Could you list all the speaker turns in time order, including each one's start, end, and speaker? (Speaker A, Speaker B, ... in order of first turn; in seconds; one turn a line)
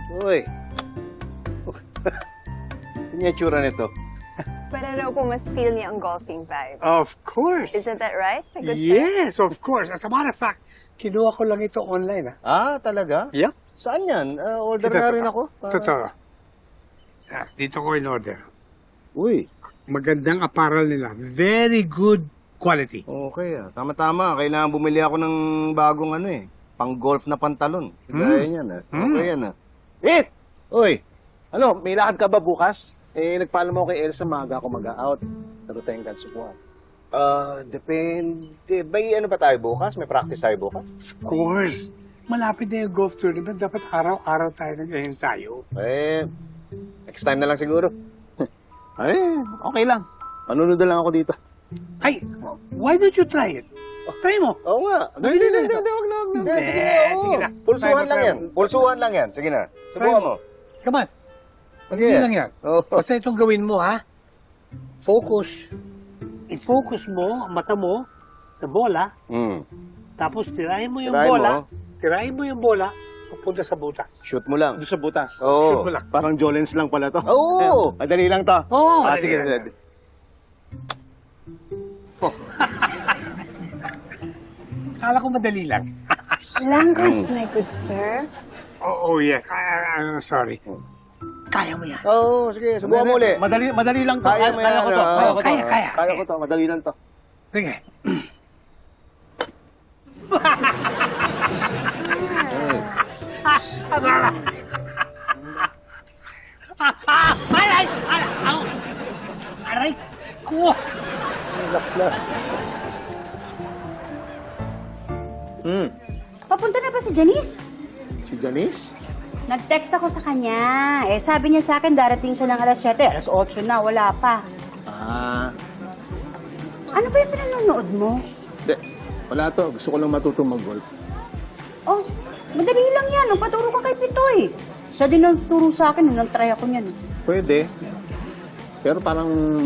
Speaker A: 0.1-0.5
Speaker B: 3.1-3.9
Speaker A: 3.4-3.8
Speaker C: 4.7-6.8
Speaker D: 6.8-7.8
Speaker C: 7.7-9.1
Speaker D: 8.6-12.3
Speaker A: 12.4-13.3
Speaker A: 13.8-15.9
Speaker D: 14.8-16.1
Speaker D: 17.3-18.5
Speaker A: 19.1-19.5
Speaker D: 19.9-23.0
Speaker A: 23.1-29.5
Speaker D: 28.1-29.3
Speaker B: 30.0-30.3
Speaker A: 30.7-31.0
Speaker B: 31.5-36.5
Speaker A: 37.1-40.9
Speaker D: 41.2-45.6
Speaker A: 45.8-46.3
Speaker A: 47.1-47.9
Speaker B: 49.0-51.3
Speaker D: 52.0-53.6
Speaker D: 54.2-54.6
Speaker A: 54.6-55.3
Speaker D: 55.2-58.7
Speaker B: 55.2-56.6
Speaker A: 56.4-60.4
Speaker D: 59.9-60.3
Speaker D: 60.8-61.1
Speaker A: 61.9-63.0
Speaker D: 61.9-64.0
Speaker D: 65.0-65.7
Speaker D: 66.5-68.1
Speaker D: 68.6-69.1
Speaker A: 69.3-69.6
Speaker D: 70.2-74.1
Speaker A: 71.0-71.6
Speaker A: 74.3-74.8
Speaker B: 74.8-79.7
Speaker A: 75.4-75.9
Speaker D: 75.6-76.1
Speaker A: 77.3-77.9
Speaker D: 78.7-79.7
Speaker A: 79.0-79.6
Speaker D: 85.0-85.9
Speaker C: 86.5-88.3
Speaker A: 86.9-87.3
Speaker D: 88.8-90.6
Speaker D: 91.5-92.0
Speaker A: 92.0-93.4
Speaker B: 92.8-96.9
Speaker A: 94.2-95.4
Speaker D: 95.1-96.2
Speaker D: 97.5-98.2
Speaker D: 100.4-100.7
Speaker B: 102.4-102.8
Speaker D: 103.5-104.5
Speaker D: 106.8-108.7
Speaker D: 109.6-110.8
Speaker B: 111.5-112.2
Speaker B: 115.6-115.9
Speaker E: 116.5-117.6
Speaker B: 118.3-118.9
Speaker E: 119.5-124.4
Speaker B: 124.9-125.5
Speaker E: 126.9-128.2
Speaker B: 128.7-130.9
Speaker E: 131.9-136.9
Speaker B: 137.3-137.6
Speaker B: 138.8-139.3